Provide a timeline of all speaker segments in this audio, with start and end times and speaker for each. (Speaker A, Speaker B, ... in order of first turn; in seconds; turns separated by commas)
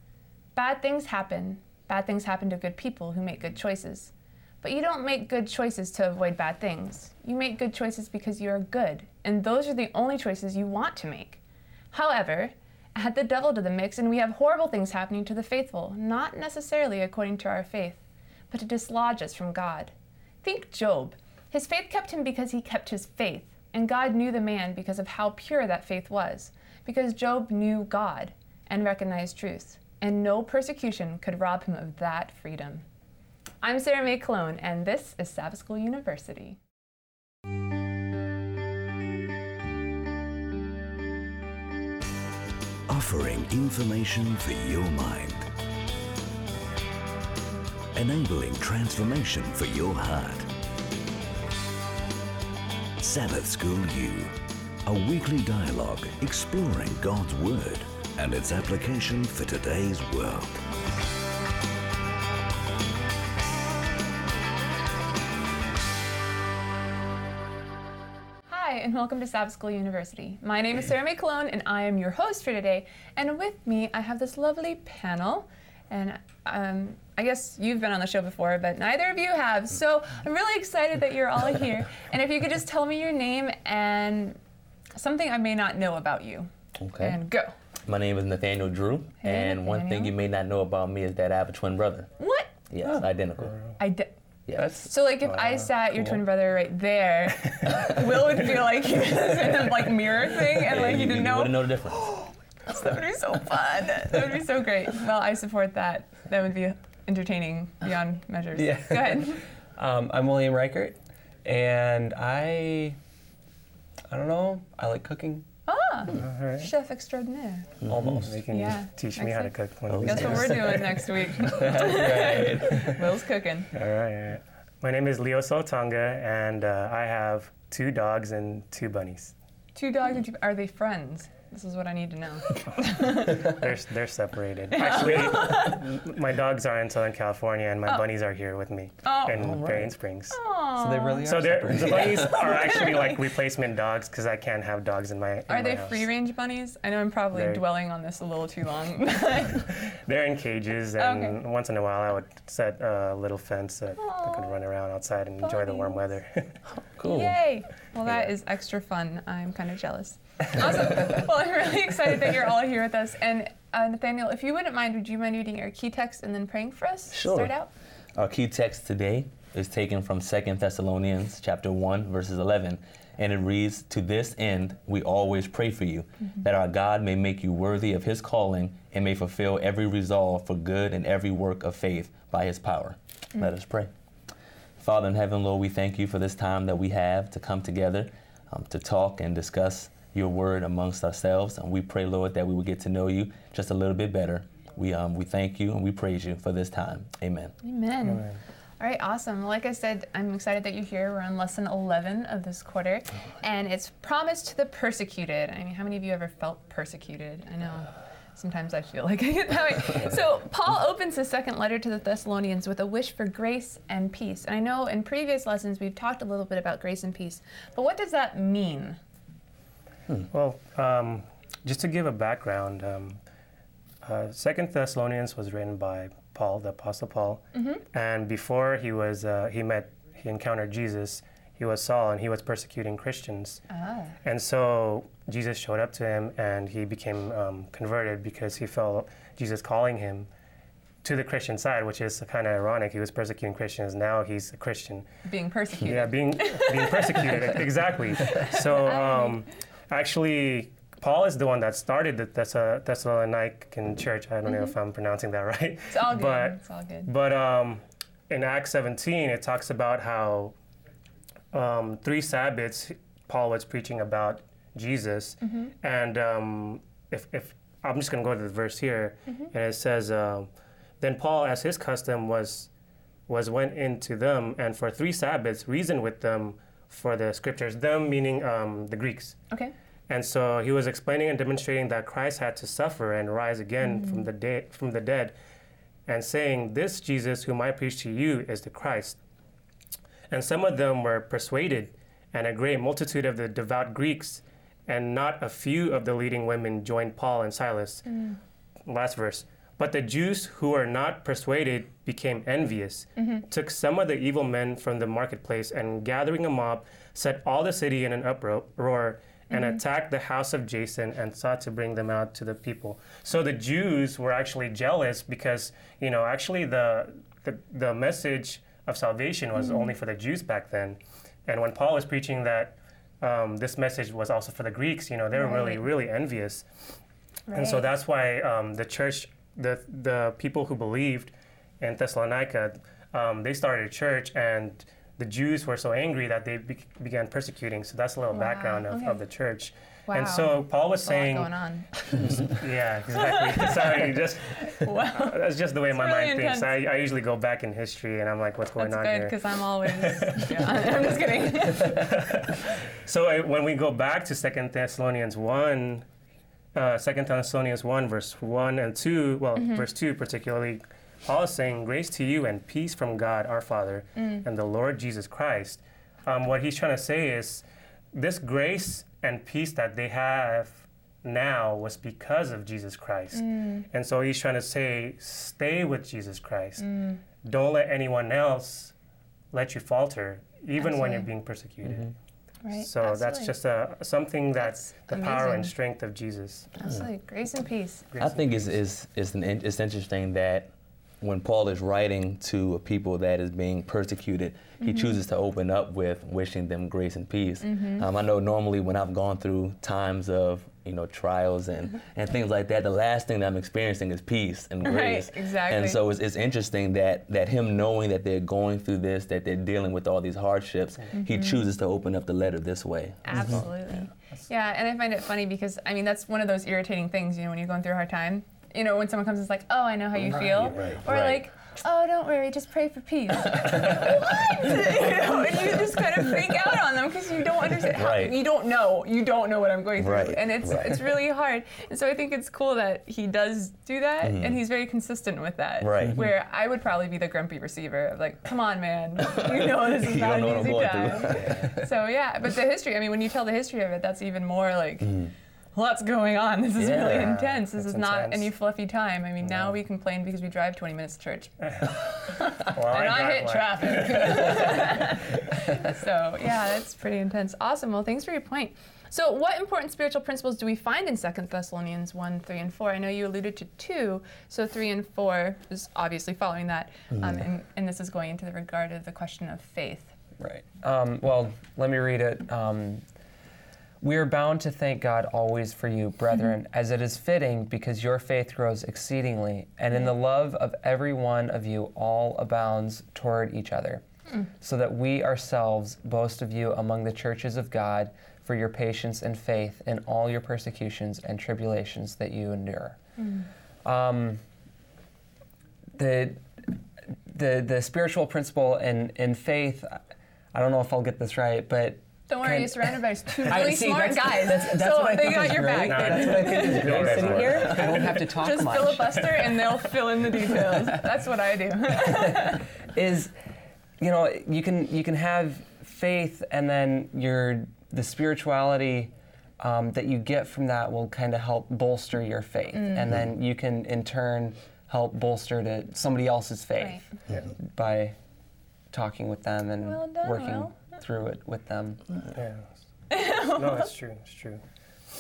Speaker A: 0.6-11.4, Speaker A: 11.9-32.9, Speaker A: 33.6-36.6, Speaker B: 42.9-45.5, Speaker B: 47.9-50.5, Speaker B: 53.0-60.6, Speaker A: 68.5-84.4, Speaker A: 85.0-87.5, Speaker C: 86.8-87.2, Speaker C: 87.9-92.1, Speaker A: 89.2-90.1, Speaker A: 92.2-92.5, Speaker C: 92.7-93.6, Speaker A: 93.8-94.1, Speaker C: 94.5-94.8, Speaker D: 94.6-94.9, Speaker A: 94.8-102.1, Speaker E: 95.3-96.1, Speaker C: 100.7-102.1, Speaker A: 102.7-109.4, Speaker D: 108.6-113.0, Speaker D: 114.1-115.5, Speaker A: 115.7-117.7, Speaker E: 116.2-116.7, Speaker C: 117.8-118.3, Speaker D: 117.9-118.4, Speaker E: 118.3-120.6, Speaker A: 118.5-123.7, Speaker C: 119.9-120.9, Speaker D: 121.4-123.0, Speaker E: 123.7-129.3, Speaker A: 129.8-133.6, Speaker E: 133.1-140.4, Speaker A: 134.8-135.8, Speaker A: 139.0-139.6, Speaker C: 139.3-139.9, Speaker A: 140.3-141.3, Speaker D: 140.8-142.5, Speaker E: 141.2-146.1, Speaker A: 142.0-143.2, Speaker A: 145.5-149.7, Speaker E: 147.3-147.6, Speaker E: 149.9-156.6, Speaker A: 151.0-151.4, Speaker A: 154.0-154.6, Speaker A: 155.4-156.1, Speaker C: 156.7-157.4, Speaker A: 157.0-167.7, Speaker C: 158.1-158.3, Speaker C: 167.1-167.5, Speaker C: 168.2-183.9, Speaker C: 184.8-197.5, Speaker A: 197.6-219.0, Speaker E: 198.1-198.4, Speaker E: 220.3-223.2, Speaker E: 224.0-233.6, Speaker A: 227.6-227.8, Speaker A: 233.7-234.2, Speaker E: 234.2-240.3, Speaker E: 241.0-245.1, Speaker A: 245.3-247.3, Speaker E: 245.8-260.5, Speaker A: 248.2-249.4, Speaker A: 254.5-254.7, Speaker A: 255.9-257.1, Speaker E: 261.5-272.7, Speaker A: 265.4-265.7, Speaker E: 273.3-279.4, Speaker E: 280.1-285.3, Speaker A: 283.8-284.2, Speaker E: 286.1-289.2, Speaker E: 290.3-298.1, Speaker A: 298.1-298.4, Speaker E: 298.9-326.6, Speaker A: 303.2-303.4, Speaker A: 309.5-309.8, Speaker A: 319.6-319.9, Speaker A: 325.4-325.9, Speaker A: 327.5-327.9, Speaker E: 327.5-341.5, Speaker A: 338.3-339.2, Speaker A: 340.1-342.5, Speaker E: 342.0-350.9, Speaker A: 343.1-346.8, Speaker A: 348.8-352.2, Speaker E: 351.8-356.1, Speaker E: 356.7-376.9, Speaker A: 359.6-359.9, Speaker A: 364.2-364.4, Speaker A: 373.3-373.9, Speaker A: 376.8-377.2, Speaker E: 377.4-378.9, Speaker E: 379.5-382.1, Speaker A: 380.8-381.3, Speaker A: 382.6-383.5, Speaker E: 382.8-386.7, Speaker A: 384.6-385.7, Speaker A: 386.8-388.1, Speaker E: 388.1-388.7, Speaker C: 388.2-413.7, Speaker A: 394.8-395.2, Speaker A: 397.6-398.1, Speaker A: 404.8-406.0, Speaker A: 411.1-411.7, Speaker A: 413.3-470.1, Speaker C: 420.5-421.4, Speaker C: 427.9-428.4, Speaker C: 430.0-431.1, Speaker C: 434.2-434.6, Speaker C: 435.8-436.2, Speaker C: 439.2-441.7, Speaker C: 446.8-447.4, Speaker E: 447.1-448.5, Speaker E: 452.6-454.9, Speaker C: 467.1-467.4, Speaker D: 470.4-473.0, Speaker D: 474.0-484.0, Speaker D: 484.6-493.0, Speaker A: 493.2-493.5, Speaker D: 493.8-494.4, Speaker D: 495.9-500.0, Speaker D: 500.5-509.3, Speaker A: 502.3-512.7, Speaker E: 505.8-508.3, Speaker C: 507.0-507.6, Speaker D: 512.1-513.3, Speaker D: 514.0-527.0, Speaker A: 522.7-523.0, Speaker A: 526.8-527.0, Speaker D: 527.6-528.2, Speaker D: 528.9-532.0, Speaker A: 529.8-530.8, Speaker E: 532.3-532.7, Speaker A: 533.1-533.9, Speaker E: 533.3-534.6